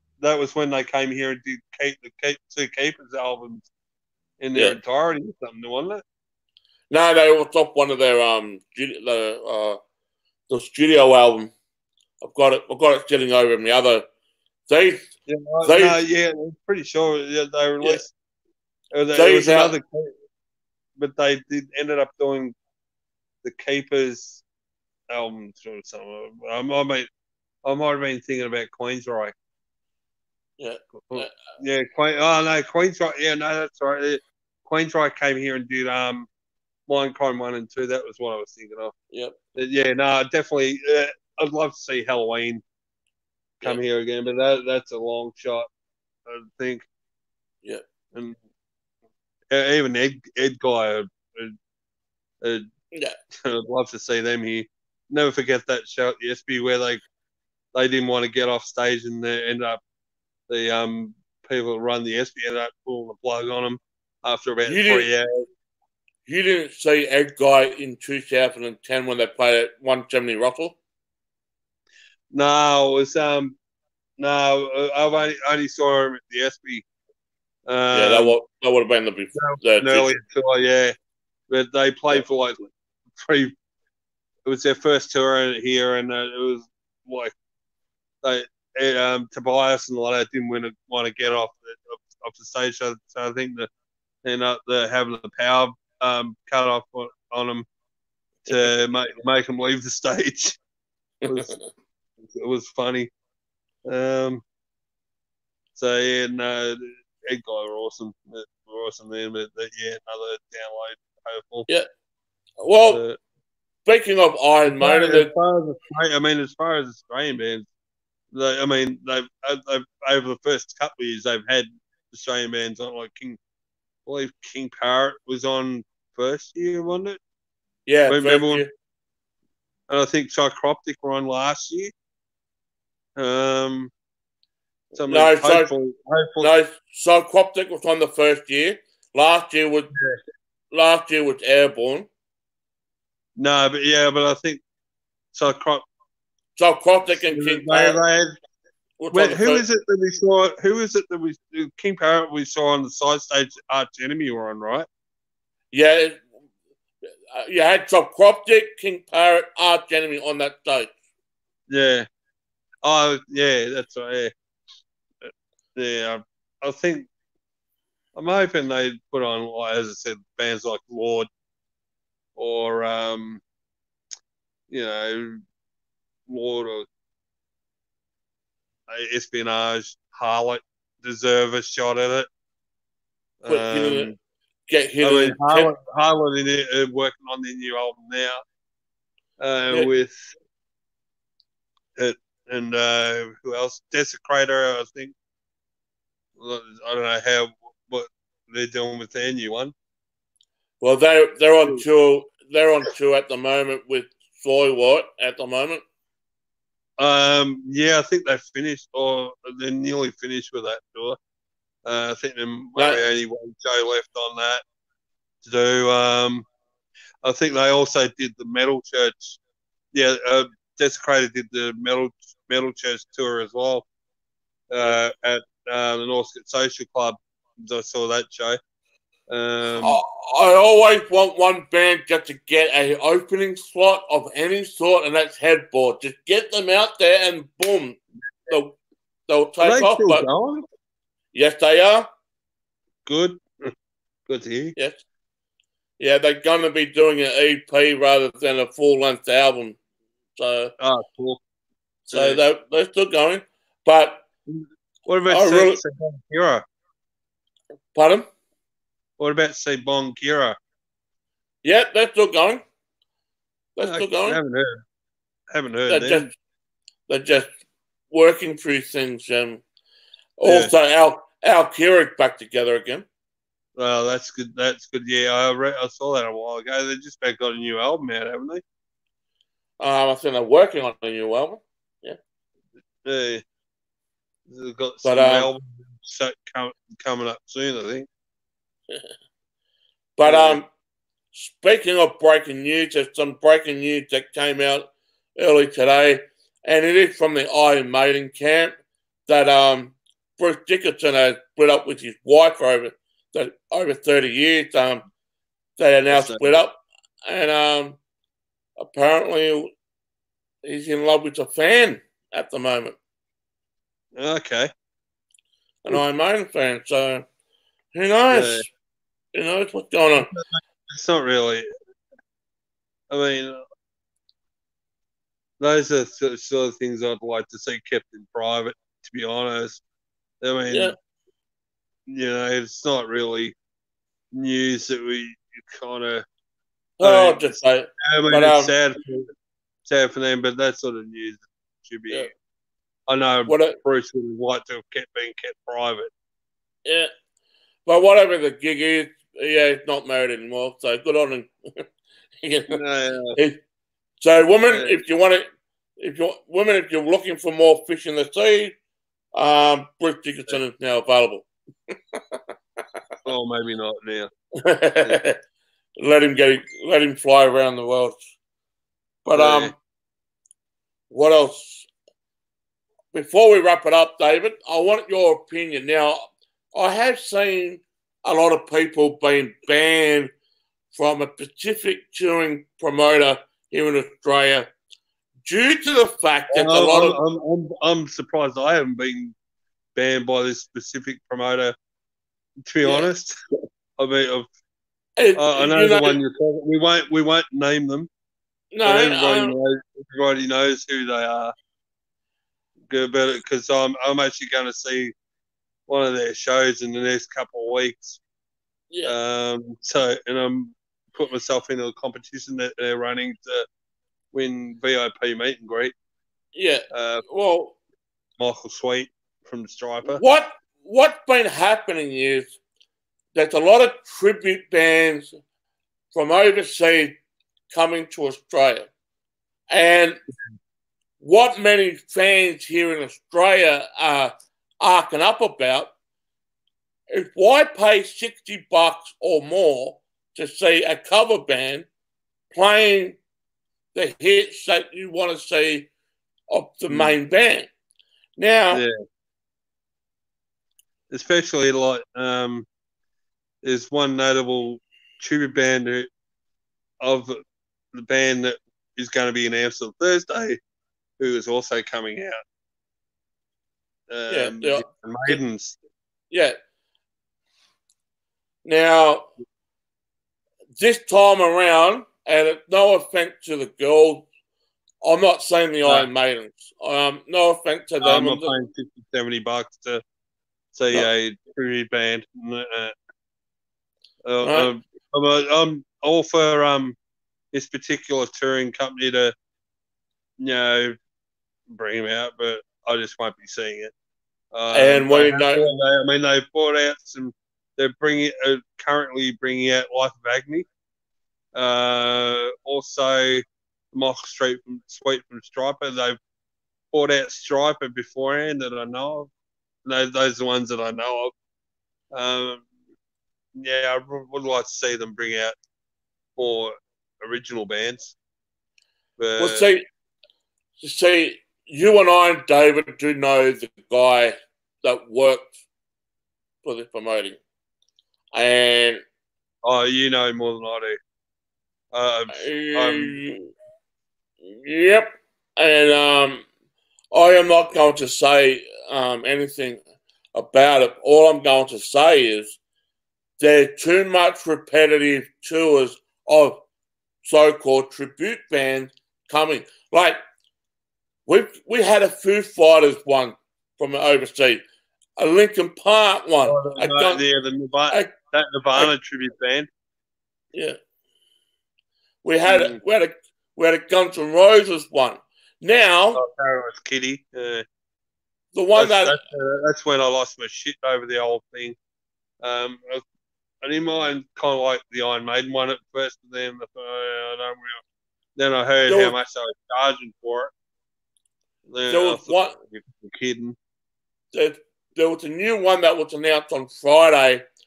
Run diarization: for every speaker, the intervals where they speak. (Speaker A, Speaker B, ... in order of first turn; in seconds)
Speaker A: 0.2-3.7, 4.4-6.0, 15.3-18.1, 18.9-20.1, 21.0-22.5, 23.4-24.4, 25.1-27.1, 27.6-29.3, 31.1-36.3, 36.9-38.9, 39.5-42.6, 43.6-45.7, 46.3-46.9, 48.1-48.4, 49.5-51.5, 53.4-57.0, 57.7-59.8, 60.5-65.5, 72.3-73.6, 74.2-76.8, 77.7-78.4, 79.3-80.9, 81.5-83.5, 84.5-87.3, 88.2-93.7, 94.2-97.7, 98.5-100.6, 101.3-101.5, 102.2-103.1, 103.9-104.4, 105.8-111.7, 112.9-113.2, 114.7-117.7, 118.3-123.4, 124.1-127.2, 128.1-128.7, 129.9-131.9, 133.2-133.9, 134.9-136.5, 139.9-140.2, 143.4-144.6, 145.3-145.8, 147.2-148.4, 149.1-154.9, 161.7-162.1, 162.8-164.3, 165.8-167.1, 168.2-171.3, 172.4-173.4, 174.7-175.4, 176.3-176.9, 178.9-182.3, 183.4-184.2, 185.0-188.4, 189.4-190.3, 192.0-195.2, 196.4-199.7, 207.0-211.2, 211.9-214.6, 215.4-216.5, 217.2-219.4, 219.9-223.9, 224.7-228.6, 229.3-230.0, 239.6-240.7, 243.1-243.7, 244.3-244.8, 250.8-251.4, 252.1-252.4, 254.5-256.6, 259.2-260.6, 263.8-264.8, 265.5-266.3, 270.4-270.7, 273.8-278.6, 283.0-283.4, 284.5-288.1, 290.2-290.6, 306.1-306.6, 314.2-314.7, 318.3-318.6, 320.3-321.7, 323.1-323.6, 325.6-329.8, 330.4-330.9, 332.1-333.6, 334.3-336.2, 337.0-339.3, 339.9-342.3, 343.1-346.1, 352.7-353.4, 354.7-355.0, 363.2-364.3, 369.4-369.7, 386.5-389.4, 389.9-391.8, 392.7-393.4, 394.0-394.5, 395.4-398.1, 398.9-401.5, 402.9-405.1, 405.9-408.2, 409.1-413.7, 414.3-415.9, 416.9-417.3, 418.4-420.2, 446.9-447.1, 451.1-452.7, 453.6-456.1, 457.0-457.4, 457.9-460.6, 461.2-462.4, 464.1-465.8, 478.0-480.0, 480.7-482.9, 484.3-487.0, 487.5-489.3, 490.4-491.0, 491.7-493.9, 494.5-500.7, 501.6-506.2, 506.9-509.3, 509.9-511.3, 512.1-512.7, 513.6-515.6, 516.4-518.2, 519.2-519.6, 529.6-531.0, 531.9-533.2, 556.5-559.7, 562.5-562.8, 566.1-567.6, 568.8-571.8, 572.4-573.0, 573.6-577.8, 578.4-580.5, 581.7-583.6
Speaker B: 6.9-9.8, 10.5-11.5, 12.2-14.1, 14.7-15.1, 15.6-16.0, 19.1-19.7, 30.6-31.3, 39.1-39.4, 64.7-65.1, 66.3-70.8, 77.9-80.1, 101.2-101.6, 112.6-113.0, 113.9-115.3, 127.9-128.7, 135.1-135.7, 136.4-139.9, 140.7-142.1, 146.6-148.0, 149.0-149.6, 155.7-156.2, 157.3-160.9, 183.5-184.1, 184.7-185.7, 200.8-205.8, 229.8-238.8, 239.3-240.3, 241.3-242.1, 244.8-245.0, 246.0-249.8, 250.4-250.7, 252.1-254.2, 255.3-255.8, 257.9-258.3, 261.6-262.6, 263.8-264.4, 265.9-266.3, 267.1-267.6, 268.1-269.6, 270.4-273.1, 279.8-282.2, 285.0-285.5, 290.2-290.7, 291.3-298.7, 299.3-305.0, 305.8-308.0, 308.8-309.7, 310.6-313.0, 315.8-317.3, 317.9-318.6, 319.3-320.3, 337.0-338.7, 343.5-343.8, 346.9-347.1, 347.9-351.9, 352.4-352.8, 354.2-355.5, 356.0-358.8, 359.3-362.4, 364.6-365.4, 366.0-368.3, 369.2-369.7, 371.1-371.9, 373.1-380.3, 380.9-384.7, 385.4-387.2, 395.2-396.2, 398.7-399.6, 416.5-417.8, 420.1-422.6, 423.4-425.3, 426.1-427.2, 427.7-428.9, 429.7-430.2, 431.2-435.9, 437.1-441.9, 442.5-443.2, 443.9-445.9, 446.5-447.7, 448.4-448.8, 464.3-464.8, 468.6-469.3, 470.8-474.3, 475.0-478.5, 484.4-484.7, 494.7-495.6, 519.4-519.9, 520.8-525.5, 526.6-527.4, 528.3-529.0, 532.3-533.5, 534.4-536.5, 537.1-539.8, 540.3-542.6, 543.4-546.6, 547.2-550.2, 551.3-554.6, 555.2-557.2, 562.2-566.2, 568.5-569.2, 578.9-579.2, 581.9-582.6, 584.3-587.4